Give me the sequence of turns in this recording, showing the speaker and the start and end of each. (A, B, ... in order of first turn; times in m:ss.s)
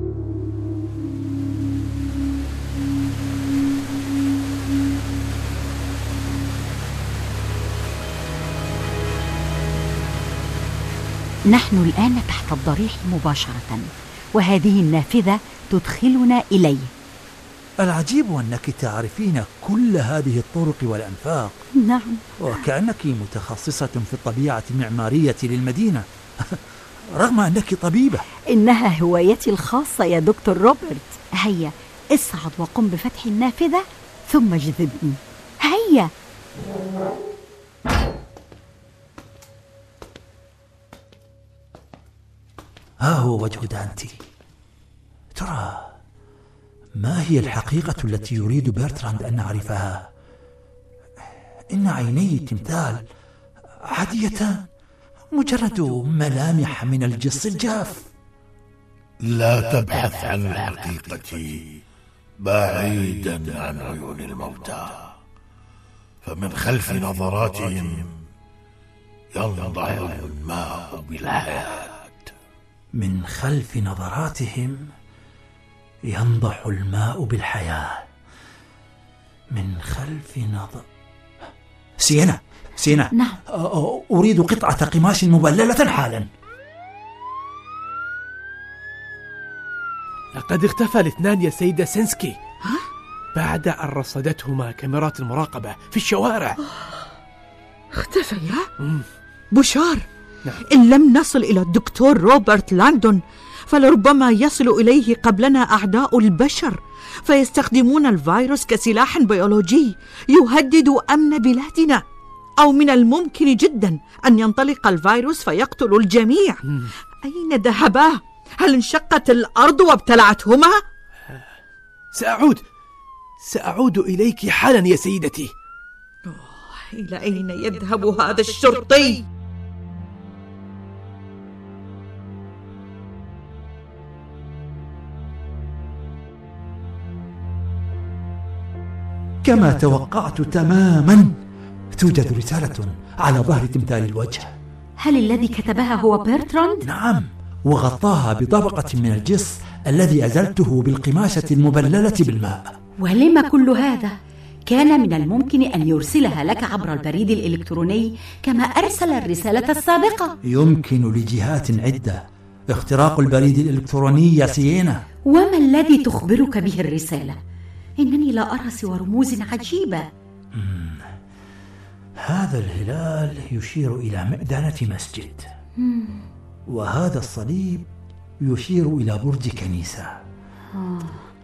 0:11.5-0:16.9 A
0:17.8-0:21.6 B
0:21.8-0:22.6 A
0:22.4-0:28.3 B
0:28.5-0:36.1 A
0:43.0-0:44.2 B
0:45.4-0:46.0 B
0:47.0-0:50.1 B
0:51.7-0:53.1 B
0:53.8-0:54.7 B
0:55.3-0:58.1 B
0:59.2-1:01.7 C
1:02.4-1:05.1 C
1:06.2-1:08.1 C
1:09.4-1:12.3 C
1:12.9-1:14.9 B
1:16.1-1:18.0 B
1:19.5-1:20.8 B
1:22.0-1:26.3 B
1:23.1-1:23.4 A
1:30.4-1:32.4 D
1:33.4-1:36.6 D
1:38.0-1:38.7 E
1:39.5-1:40.0 E
1:40.7-1:52.0 E
1:52.6-1:56.6 E
1:57.2-2:00.8 E
2:02.1-2:02.6 D
2:03.4-2:05.5 D
2:06.3-2:09.2 E
2:19.4-2:21.4 B
2:22.0-2:24.5 B
2:25.0-2:26.8 A
2:26.8-2:32.7 B
2:33.0-2:34.2 A
2:34.7-2:40.4 A
2:40.4-2:45.0 B
2:45.3-2:47.4 A
2:48.0-2:50.1 A
2:50.5-2:51.1 B
2:52.2-2:55.5 B
2:55.8-2:56.3 A
2:56.7-2:57.9 B
2:58.4-3:00.2 B
3:00.7-3:01.2 A